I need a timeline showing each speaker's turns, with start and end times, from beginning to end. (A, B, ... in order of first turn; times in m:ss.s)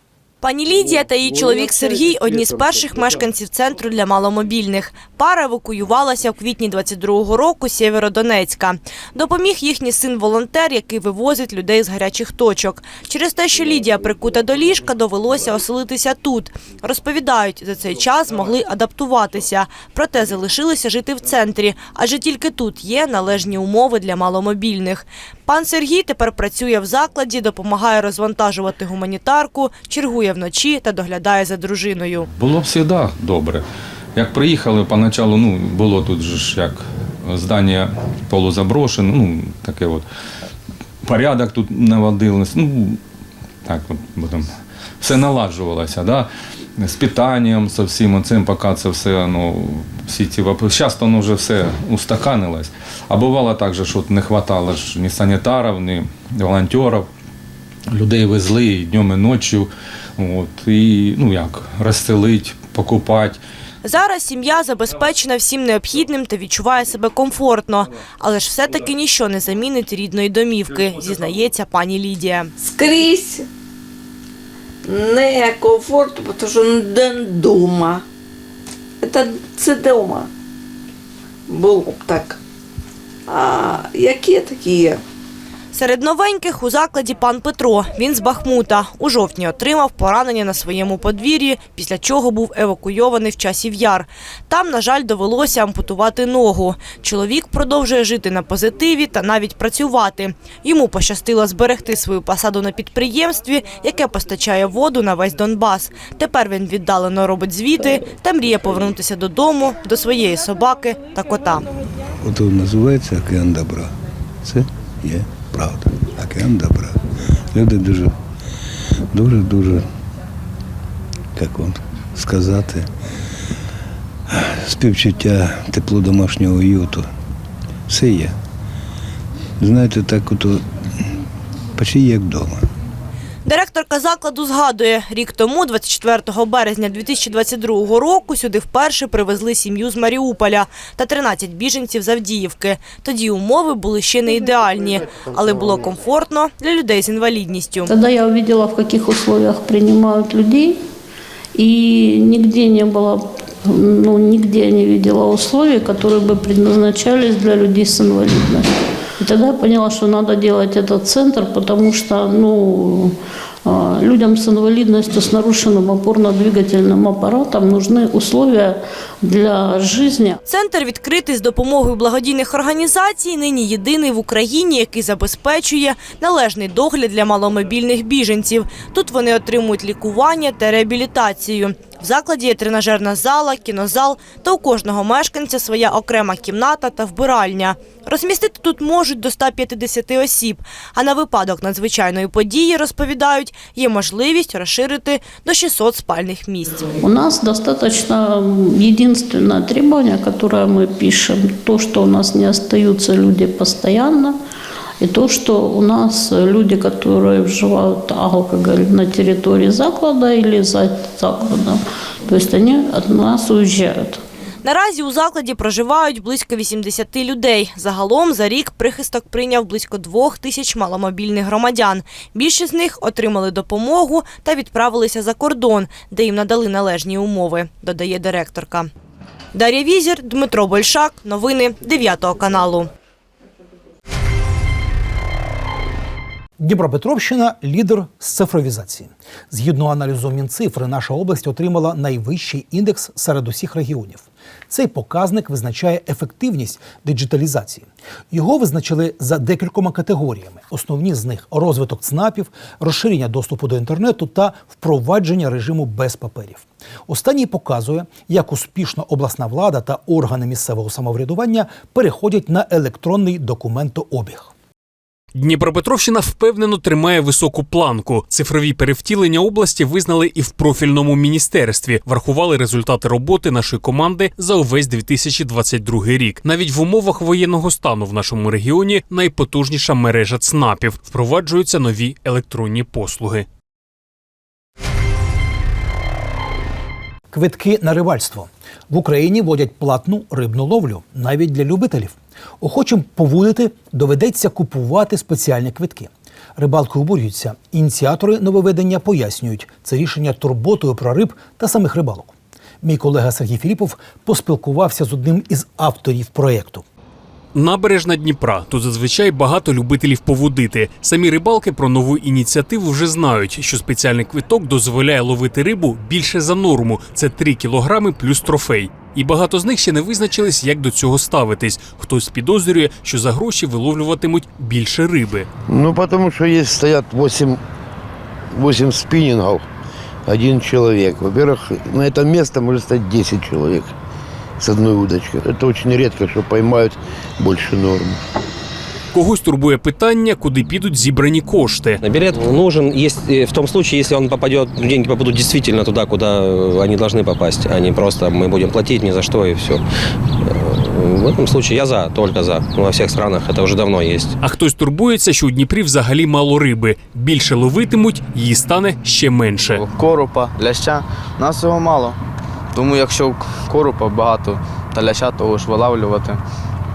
0:00.4-0:32.3 A
0:32.4-0:33.6 B
0:34.2-0:40.1 B
0:41.0-0:43.0 B
0:43.7-0:44.5 B
0:45.0-0:57.1 B
0:57.9-1:03.4 B
1:03.8-1:12.5 A
1:12.7-1:13.4 C
1:14.9-1:18.0 C
1:19.1-1:20.2 C
1:21.5-1:22.3 C
1:23.3-1:25.0 C
1:25.7-1:51.6 A
1:52.2-1:53.9 D
1:54.4-1:57.0 D
1:57.5-1:58.1 D
1:59.1-1:59.8 D
2:01.4-2:02.9 D
2:04.6-2:07.1 D
2:07.9-2:08.4 D
2:09.6-2:10.6 D
2:11.8-2:12.6 D
2:13.5-2:27.9 A
2:27.9-2:30.8 E
2:31.6-2:38.7 E
2:39.2-2:43.1 E
2:43.7-2:50.4 E
2:50.5-3:16.9 A
3:17.0-3:24.4 E
3:25.0-3:34.2 E
3:34.6-3:48.9 A
3:49.5-3:52.9 A
3:56.6-4:24.5 F
4:25.3-4:43.5 G
4:47.3-5:06.8 F
5:07.5-5:25.5 G
5:25.7-5:27.6 H
5:28.5-5:29.6 H
5:30.3-5:33.9 H
5:34.6-5:38.2 H
5:39.1-5:42.0 G
5:42.0-5:49.8 I
5:50.5-5:54.3 I
5:54.4-5:59.8 G
5:59.6-6:02.2 J
6:02.7-6:06.4 J